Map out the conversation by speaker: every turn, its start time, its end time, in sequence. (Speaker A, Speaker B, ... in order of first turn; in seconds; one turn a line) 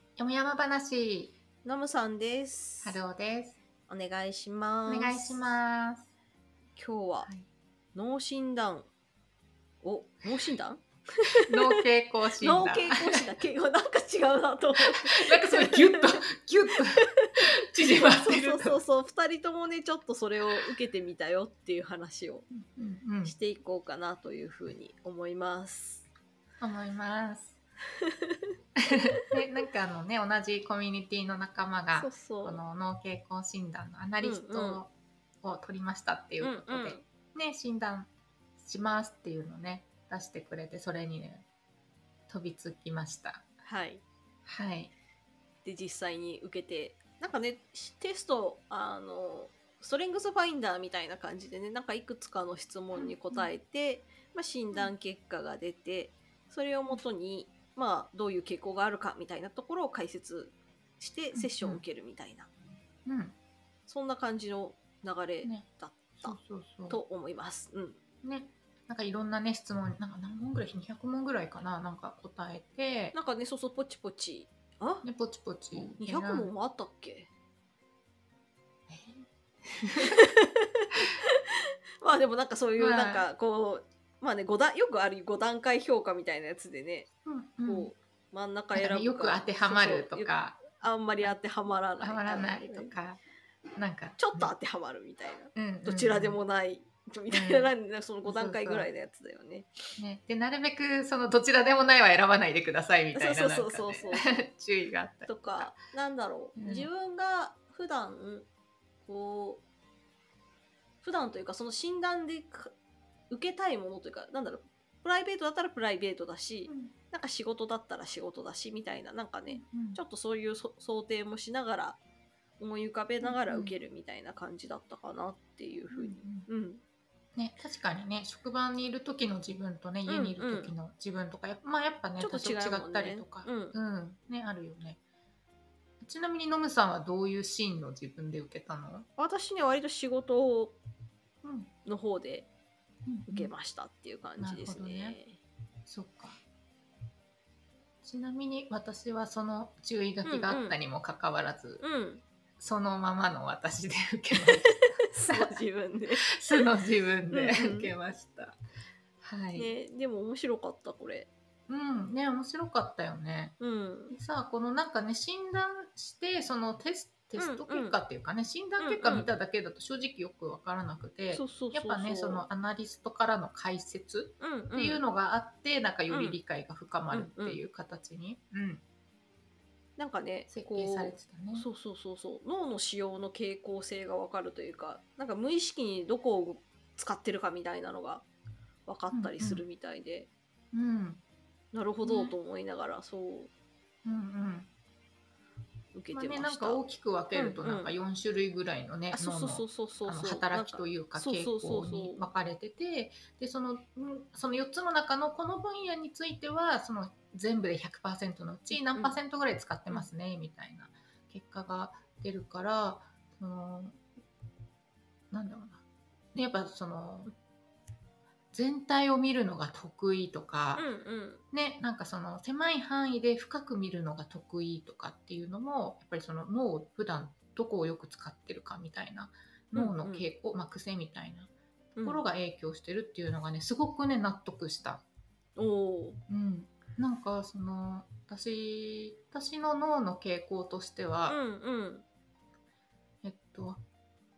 Speaker A: 0.2-1.3
Speaker B: 1.6-3.0
Speaker A: 2.8-3.6
Speaker B: 3.9-5.6
Speaker A: 4.9-6.1
Speaker B: 6.8-7.3
Speaker B: 7.9-8.9
Speaker B: 9.8-11.6
Speaker A: 11.5-13.2
Speaker B: 12.4-16.2
Speaker A: 14.9-18.8
Speaker B: 17.9-22.4
Speaker A: 22.5-23.3
Speaker B: 23.2-26.0
Speaker A: 26.6-27.6
Speaker B: 28.1-28.4
Speaker A: 28.9-41.5
Speaker B: 31.9-32.6
Speaker B: 34.2-34.8
Speaker B: 36.4-37.0
Speaker A: 42.3-43.4
Speaker B: 43.6-44.0
Speaker A: 44.5-44.9
Speaker B: 45.6-62.5
Speaker A: 52.9-53.5
Speaker A: 61.3-61.8
Speaker A: 63.0-63.3
Speaker B: 63.9-66.4
Speaker A: 66.2-67.0
Speaker B: 66.9-68.0
Speaker A: 68.2-73.1
Speaker B: 73.1-75.0
Speaker A: 75.0-76.5
Speaker B: 75.9-77.3
Speaker A: 78.9-80.1
Speaker B: 80.1-81.4
Speaker B: 82.0-87.1
Speaker A: 82.8-83.3
Speaker A: 87.2-87.9
Speaker B: 87.6-92.9
Speaker A: 88.7-91.3
Speaker A: 92.0-93.2
Speaker A: 93.8-94.5
Speaker B: 94.2-99.7
Speaker A: 95.5-96.4
Speaker A: 97.3-97.7
Speaker A: 98.2-98.9
Speaker A: 100.0-105.7
Speaker B: 103.1-104.4
Speaker B: 105.2-108.5
Speaker A: 106.6-106.9
Speaker B: 109.0-109.6
Speaker B: 111.0-112.7
Speaker B: 113.3-122.0
Speaker A: 116.7-116.9
Speaker A: 119.5-120.0
Speaker B: 122.6-126.8
Speaker A: 123.2-123.7
Speaker A: 125.9-126.5
Speaker A: 127.3-135.0
Speaker B: 130.1-130.7
Speaker B: 132.2-133.8
Speaker A: 136.0-139.1
Speaker B: 139.2-140.8
Speaker A: 141.4-141.7
Speaker B: 141.8-142.5
Speaker A: 143.1-143.5
Speaker B: 143.3-145.4
Speaker A: 144.4-145.2
Speaker A: 145.8-146.4
Speaker A: 148.0-151.8
Speaker B: 150.2-150.8
Speaker B: 151.8-152.2
Speaker A: 152.6-155.5
Speaker B: 154.7-156.6
Speaker A: 156.2-158.6
Speaker B: 157.3-157.9
Speaker A: 159.2-159.7
Speaker B: 159.5-161.3
Speaker A: 161.7-163.5
Speaker B: 163.6-164.1
Speaker A: 164.1-178.8
Speaker B: 167.4-168.0
Speaker B: 168.8-169.3
Speaker B: 171.3-172.5
Speaker B: 174.4-175.0
Speaker B: 176.1-176.4
Speaker B: 177.1-177.6
Speaker B: 180.0-188.2
Speaker A: 180.5-181.7
Speaker B: 188.8-190.3
Speaker A: 189.1-189.6
Speaker A: 190.7-191.2
Speaker B: 191.7-193.5
Speaker A: 192.0-192.4
Speaker A: 194.0-194.7
Speaker B: 195.9-196.8
Speaker A: 196.1-214.0
Speaker B: 197.3-197.9
Speaker B: 199.1-202.2
Speaker B: 208.7-209.2
Speaker A: 215.3-215.8
Speaker A: 216.3-217.3
Speaker A: 218.5-220.8
Speaker B: 220.7-221.4
Speaker A: 221.5-235.0
Speaker B: 229.7-230.2
Speaker B: 231.9-232.2
Speaker B: 235.6-236.2
Speaker A: 236.3-241.4
Speaker B: 241.3-242.0
Speaker A: 243.2-243.8